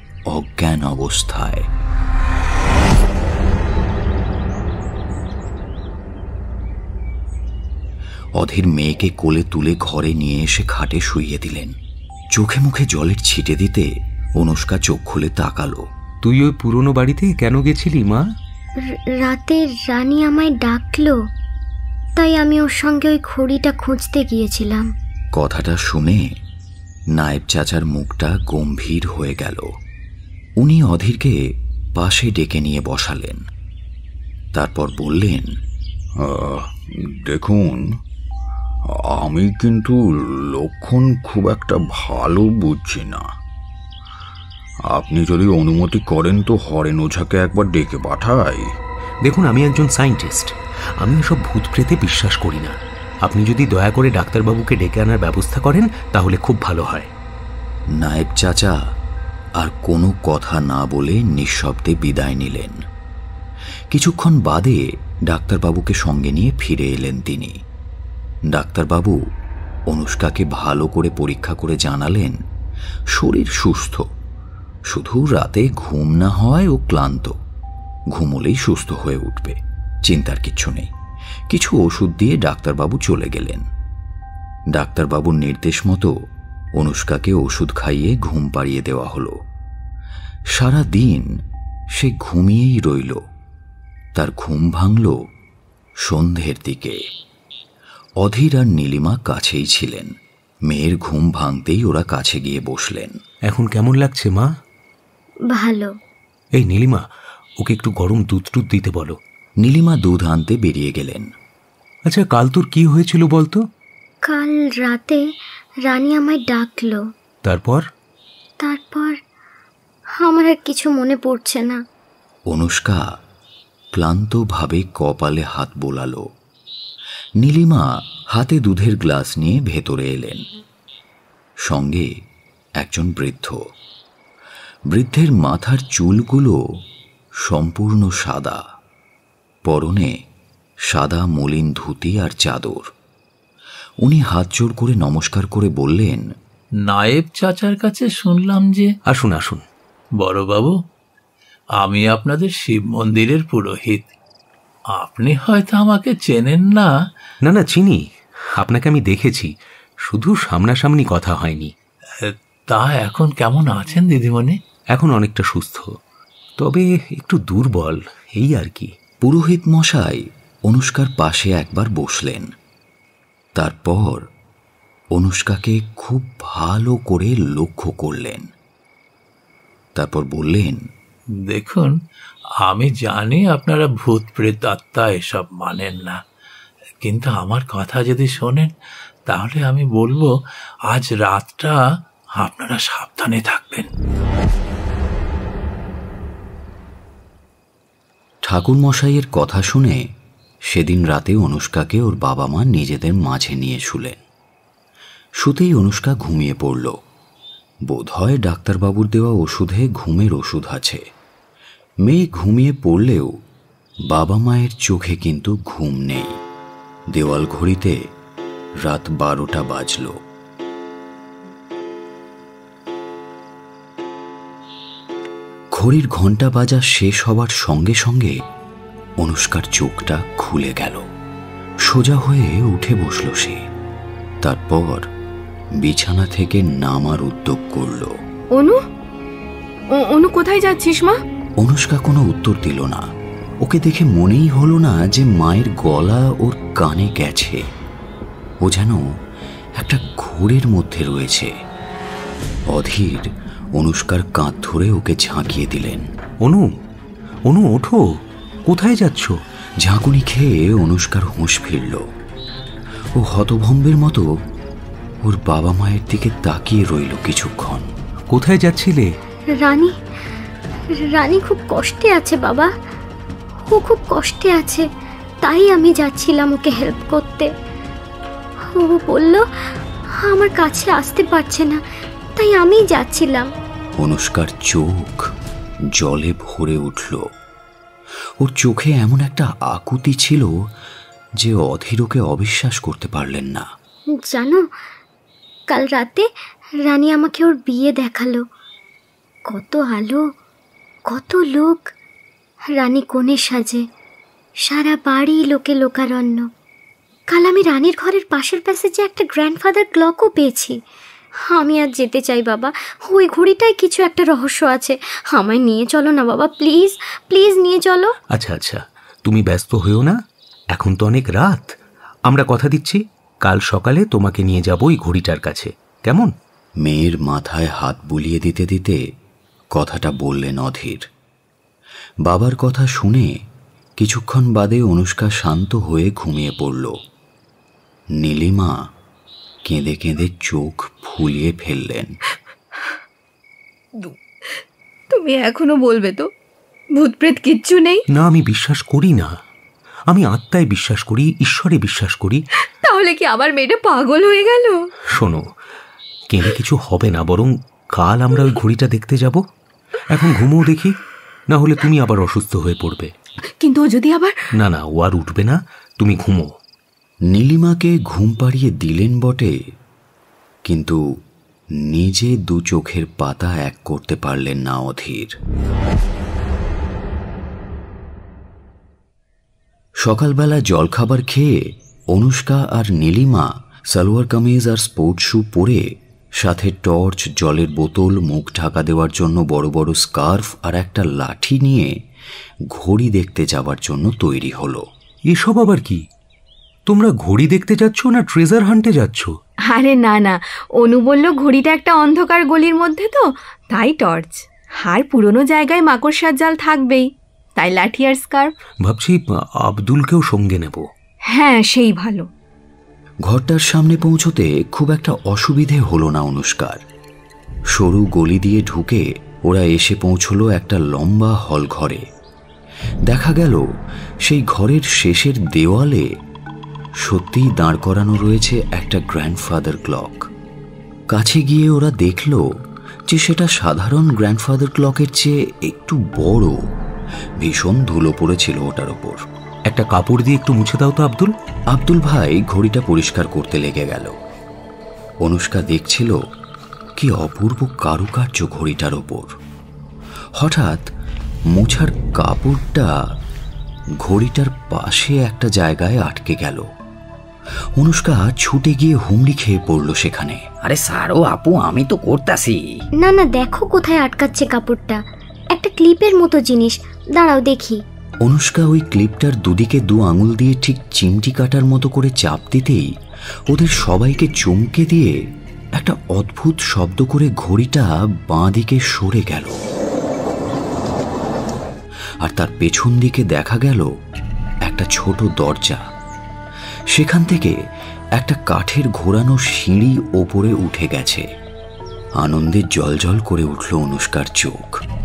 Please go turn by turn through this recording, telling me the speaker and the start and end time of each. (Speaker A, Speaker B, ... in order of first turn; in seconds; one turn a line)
Speaker A: 0.3-1.7
Speaker A: 8.4-11.8
Speaker A: 12.3-15.9
Speaker B: 16.2-18.2
Speaker C: 18.8-21.2
Speaker C: 22.2-24.9
Speaker A: 25.4-26.2
Speaker A: 27.1-29.7
Speaker A: 30.6-31.4
Speaker A: 32.0-33.4
Speaker A: 34.5-35.5
Speaker D: 36.2-37.9
Speaker D: 38.9-43.3
Speaker D: 44.9-48.7
Speaker B: 49.2-57.1
Speaker A: 58.0-58.8
Speaker A: 59.6-62.8
Speaker A: 63.9-67.6
Speaker A: 68.5-69.2
Speaker A: 69.9-72.4
Speaker A: 73.1-74.1
Speaker A: 74.9-77.4
Speaker A: 78.1-80.9
Speaker A: 81.5-83.7
Speaker A: 84.7-86.1
Speaker A: 86.8-89.4
Speaker A: 90.5-91.3
Speaker A: 92.0-93.2
Speaker A: 94.2-95.2
Speaker A: 96.0-97.0
Speaker A: 98.2-100.1
Speaker A: 100.7-103.2
Speaker B: 103.5-104.5
Speaker C: 105.5-105.9
Speaker B: 106.6-107.0
Speaker B: 107.6-109.2
Speaker A: 109.6-111.3
Speaker B: 112.1-113.6
Speaker C: 114.3-115.2
Speaker C: 115.8-117.0
Speaker B: 117.5-117.8
Speaker C: 118.6-119.2
Speaker C: 120.2-121.8
Speaker A: 122.5-123.0
Speaker A: 123.9-126.3
Speaker A: 127.4-130.4
Speaker A: 131.6-132.1
Speaker A: 132.8-133.6
Speaker A: 134.9-136.6
Speaker A: 137.4-138.6
Speaker A: 139.7-140.1
Speaker A: 140.9-142.9
Speaker A: 144.0-146.3
Speaker E: 146.8-148.9
Speaker B: 149.1-149.6
Speaker E: 150.2-150.8
Speaker E: 151.8-154.1
Speaker E: 154.9-156.9
Speaker B: 157.4-158.0
Speaker B: 158.6-159.5
Speaker B: 160.1-161.7
Speaker E: 162.2-164.6
Speaker B: 164.9-165.9
Speaker B: 166.6-168.9
Speaker A: 169.2-172.5
Speaker A: 173.6-174.2
Speaker A: 175.1-178.5
Speaker A: 180.0-180.8
Speaker E: 181.5-182.0
Speaker E: 182.6-186.2
Speaker E: 187.0-188.7
Speaker E: 189.3-190.3
Speaker E: 190.9-191.8
Speaker E: 192.4-193.9
Speaker A: 198.4-200.0
Speaker A: 200.7-204.2
Speaker A: 205.4-207.0
Speaker A: 207.9-211.0
Speaker A: 212.0-213.3
Speaker A: 214.1-216.4
Speaker A: 217.1-218.0
Speaker A: 218.8-220.2
Speaker A: 225.7-228.4
Speaker A: 229.2-231.0
Speaker A: 231.8-233.6
Speaker A: 234.4-235.1
Speaker A: 235.8-238.1
Speaker F: 238.6-238.8
Speaker F: 240.0-241.2
Speaker A: 241.6-243.0
Speaker A: 243.6-247.6
Speaker A: 248.6-249.1
Speaker A: 249.8-251.5
Speaker A: 252.7-256.1
Speaker B: 256.4-256.7
Speaker B: 257.5-258.0
Speaker B: 258.7-259.4
Speaker A: 259.8-262.1
Speaker A: 263.2-264.3
Speaker A: 265.2-267.9
Speaker B: 268.3-269.1
Speaker C: 269.6-269.9
Speaker C: 271.0-272.7
Speaker C: 273.7-274.9
Speaker C: 275.4-277.5
Speaker C: 278.7-281.8
Speaker C: 282.4-283.5
Speaker A: 284.0-285.2
Speaker A: 285.9-287.2
Speaker A: 288.4-290.5
Speaker A: 291.4-293.7
Speaker C: 294.2-294.6
Speaker C: 295.7-296.3
Speaker C: 296.8-298.4
Speaker C: 299.5-300.2
Speaker C: 301.1-301.9
Speaker C: 302.8-303.8
Speaker C: 304.6-306.5
Speaker C: 307.3-310.8
Speaker C: 311.5-318.1
Speaker B: 318.3-320.2
Speaker B: 320.7-321.8
Speaker B: 322.3-326.3
Speaker A: 326.8-329.0
Speaker A: 329.7-331.1
Speaker A: 332.3-333.3
Speaker A: 334.0-337.0
Speaker A: 338.2-338.8
Speaker A: 339.6-342.2
Speaker F: 344.0-346.3
Speaker F: 347.0-348.1
Speaker B: 348.1-349.3
Speaker B: 350.1-352.4
Speaker F: 352.8-354.8
Speaker B: 355.1-355.4
Speaker B: 356.3-359.4
Speaker B: 360.1-360.9
Speaker B: 361.5-363.1
Speaker F: 363.5-364.4
Speaker B: 364.6-366.5
Speaker A: 367.3-369.5
Speaker A: 370.7-371.0
Speaker A: 371.9-375.4
Speaker A: 380.0-381.5
Speaker A: 382.1-392.0
Speaker A: 392.7-394.9
Speaker B: 395.3-396.0
Speaker B: 396.9-399.3
Speaker F: 399.7-408.5
Speaker B: 408.8-410.9
Speaker F: 411.3-412.3
Speaker A: 413.2-416.8
Speaker A: 417.7-422.1
Speaker A: 423.1-423.7
Speaker A: 424.2-426.1
Speaker A: 427.0-430.3
Speaker A: 431.1-432.5
Speaker A: 433.1-436.6
Speaker A: 437.4-439.2
Speaker B: 439.7-441.3
Speaker A: 441.7-444.2
Speaker A: 445.2-446.2
Speaker A: 447.0-449.3
Speaker A: 450.4-450.9
Speaker A: 451.5-452.9
Speaker A: 454.0-456.7
Speaker A: 457.8-460.5
Speaker G: 460.6-462.6
Speaker C: 463.0-467.8
Speaker A: 468.2-472.9
Speaker A: 473.5-475.1
Speaker A: 475.8-479.6
Speaker A: 482.2-483.9
Speaker A: 484.6-485.8
Speaker A: 486.9-487.6
Speaker A: 488.1-491.3
Speaker A: 492.2-494.8